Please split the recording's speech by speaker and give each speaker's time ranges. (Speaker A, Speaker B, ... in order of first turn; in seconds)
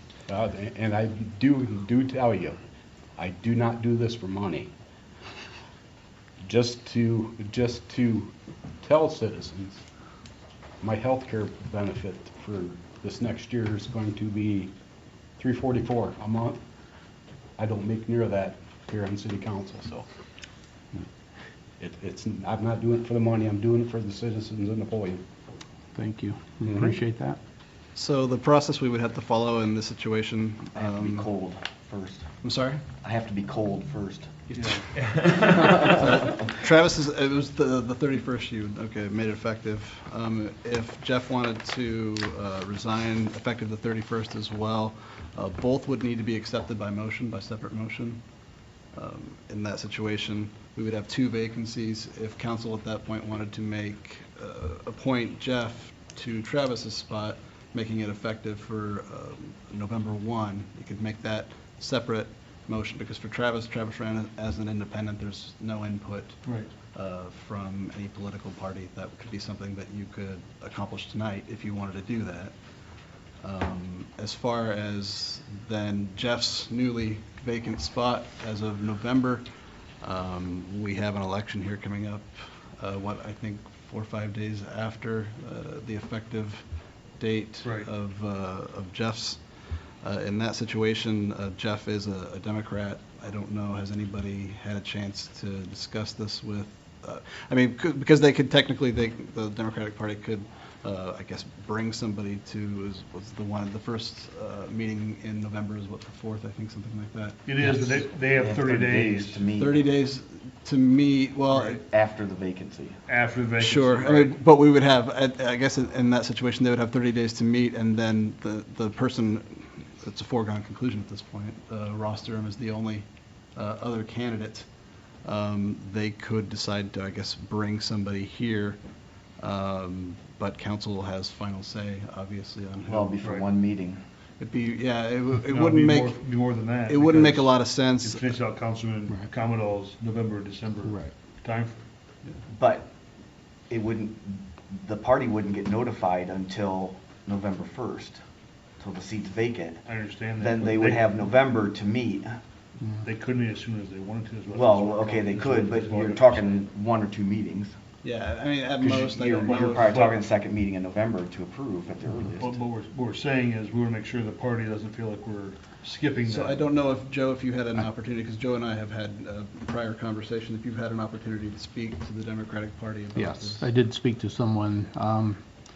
Speaker A: 0.3-2.6, 3.2-4.7, 6.4-9.8, 10.8-14.7, 15.4-16.6, 17.6-20.1, 21.8-25.2, 26.7-26.9
Speaker B: 25.9-27.4, 140.8-141.1, 173.2-175.5
Speaker C: 27.9-31.3, 32.4-32.8, 35.0-48.2, 48.9-79.5, 80.0-86.6, 87.2-107.5, 109.6-111.8, 113.6-124.7, 125.2-128.8, 129.4-133.2, 134.4-138.3, 158.0-160.0, 166.2-173.7
Speaker D: 30.8-32.3, 33.0-34.8, 35.6-36.6, 108.4-109.9, 111.7-113.0, 132.8-134.0, 142.5-142.9, 143.7-148.2, 148.8-149.9, 150.4-152.4, 154.5-157.7, 158.8-162.6
Speaker E: 34.6-34.9, 87.6-87.9, 107.5-109.5, 113.1-114.4, 135.4-141.9, 149.9-151.2, 152.9-156.6, 159.5-160.2, 162.4-166.6